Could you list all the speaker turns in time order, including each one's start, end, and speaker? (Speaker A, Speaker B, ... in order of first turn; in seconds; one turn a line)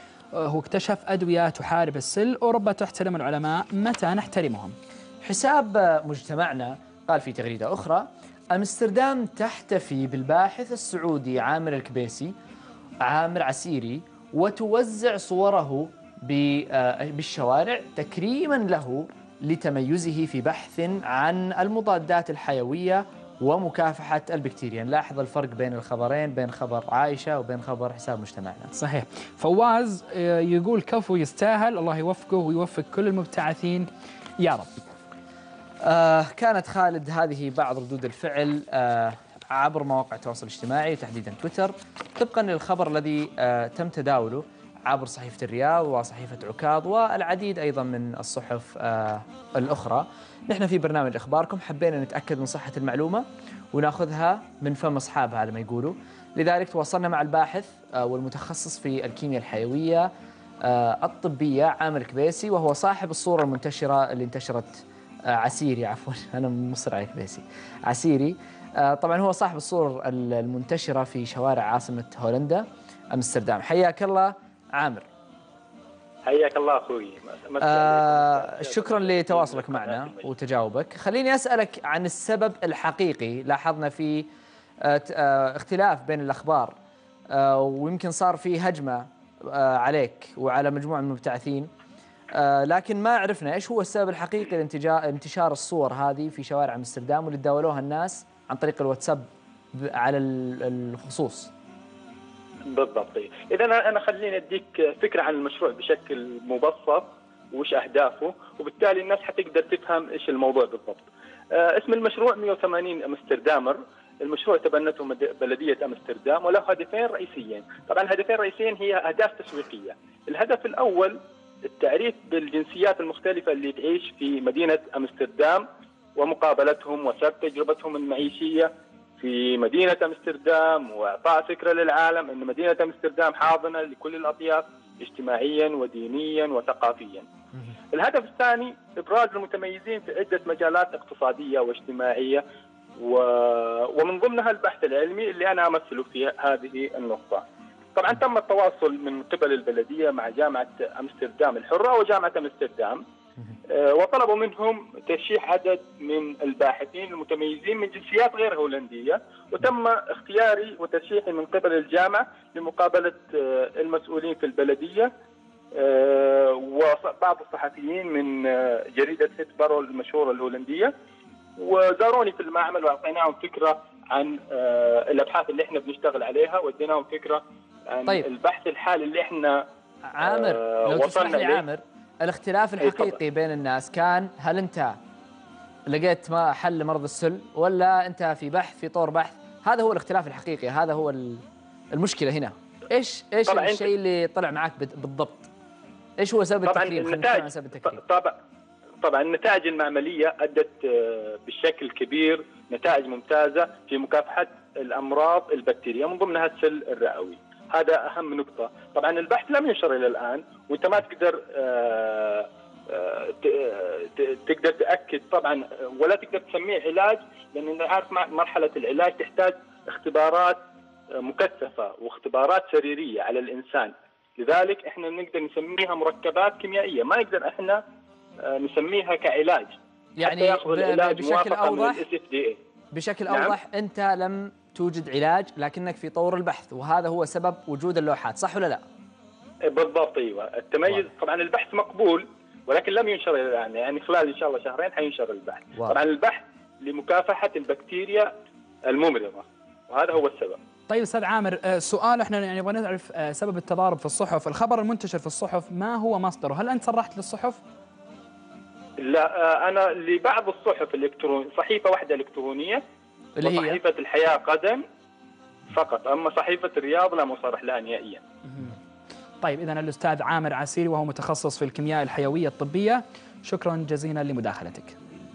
Speaker A: 0.3-4.7
Speaker B: 5.2-12.3
Speaker B: 13.0-28.7
Speaker A: 28.7-33.9
Speaker A: 34.4-34.7
Speaker B: 35.8-60.1
Speaker B: 60.6-75.0
Speaker C: 76.2-80.2
Speaker B: 77.6-84.3
Speaker B: 84.8-86.7
Speaker B: 87.3-91.7
Speaker B: 92.3-101.5
Speaker C: 102.7-121.2
Speaker C: 121.7-125.6
Speaker C: 126.2-137.2
Speaker C: 137.9-142.4
Speaker C: 143.0-147.4
Speaker C: 147.9-153.0
Speaker C: 153.7-165.1
Speaker C: 165.8-170.9
Speaker C: 171.6-179.6
Speaker B: 180.1-185.0
Speaker C: 180.2-181.6
Speaker C: 182.8-183.2
Speaker B: 185.9-195.5
Speaker C: 193.5-193.9
Speaker B: 196.2-198.0
Speaker C: 196.7-198.3
Speaker C: 199.0-220.6
Speaker C: 221.1-227.8
Speaker C: 228.4-232.6
Speaker B: 230.2-232.0
Speaker B: 232.9-238.8
Speaker C: 233.3-233.6
Speaker C: 239.7-248.3
Speaker C: 248.9-250.6
Speaker A: 250.9-257.6
Speaker C: 259.0-262.8
Speaker B: 263.4-263.8
Speaker C: 263.4-264.8
Speaker C: 265.7-268.2
Speaker A: 269.4-274.9